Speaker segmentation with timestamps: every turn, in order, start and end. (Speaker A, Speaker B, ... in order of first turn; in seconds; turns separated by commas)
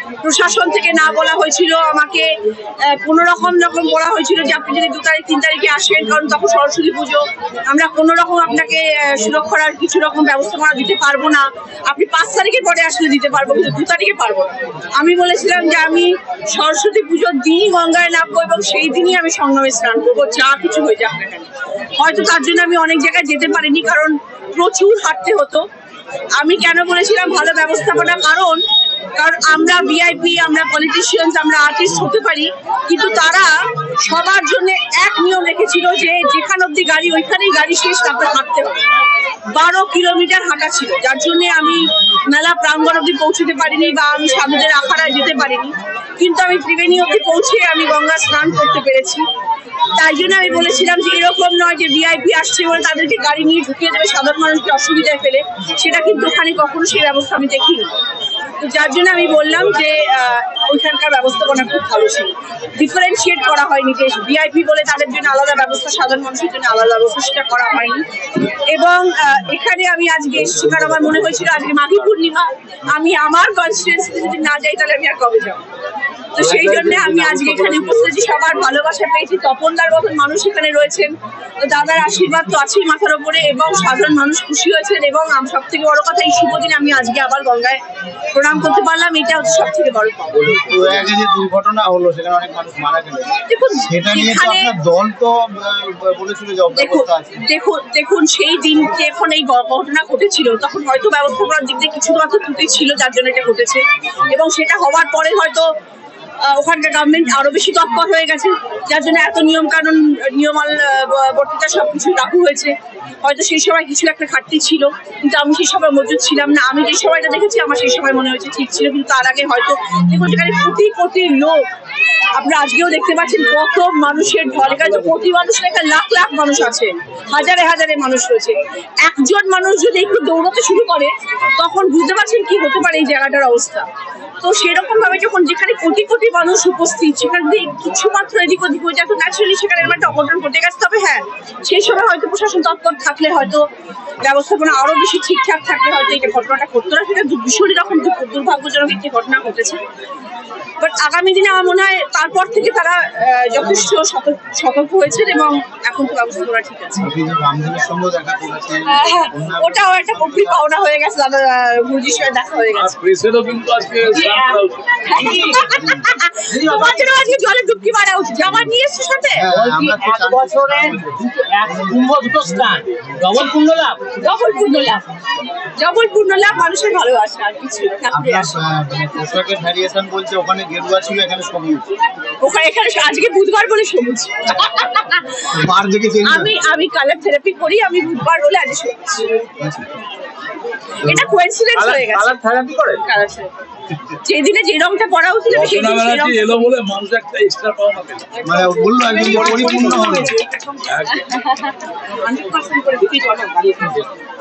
Speaker A: 0.2-25.7, Speaker A: 26.4-28.6, Speaker A: 29.2-38.9, Speaker A: 39.5-49.2, Speaker A: 50.0-57.9, Speaker A: 58.6-75.6, Speaker A: 76.3-87.8, Speaker B: 76.8-77.8, Speaker A: 88.3-90.6, Speaker C: 90.3-93.3, Speaker A: 93.5-94.7, Speaker C: 93.8-97.4, Speaker A: 96.8-105.7, Speaker A: 106.4-121.7, Speaker A: 122.4-133.9, Speaker B: 124.5-125.2, Speaker A: 134.4-143.7, Speaker A: 144.2-149.8, Speaker A: 150.8-157.1, Speaker C: 157.0-160.6, Speaker A: 158.9-163.0, Speaker B: 162.7-165.0, Speaker A: 164.1-164.5, Speaker D: 164.2-165.7, Speaker A: 165.0-169.5, Speaker C: 165.8-166.1, Speaker D: 166.5-167.1, Speaker C: 169.3-172.1, Speaker D: 169.5-174.0, Speaker A: 174.2-175.1, Speaker A: 175.8-178.5, Speaker C: 178.1-181.9, Speaker A: 182.4-185.4, Speaker C: 185.5-186.5, Speaker A: 186.2-189.3, Speaker C: 189.6-190.0, Speaker A: 191.0-192.3, Speaker C: 191.0-191.3, Speaker D: 191.8-193.0, Speaker A: 193.0-193.5, Speaker A: 194.2-196.6, Speaker B: 195.5-198.3, Speaker A: 198.4-204.1, Speaker C: 198.4-200.3, Speaker B: 199.6-200.3, Speaker B: 200.8-201.3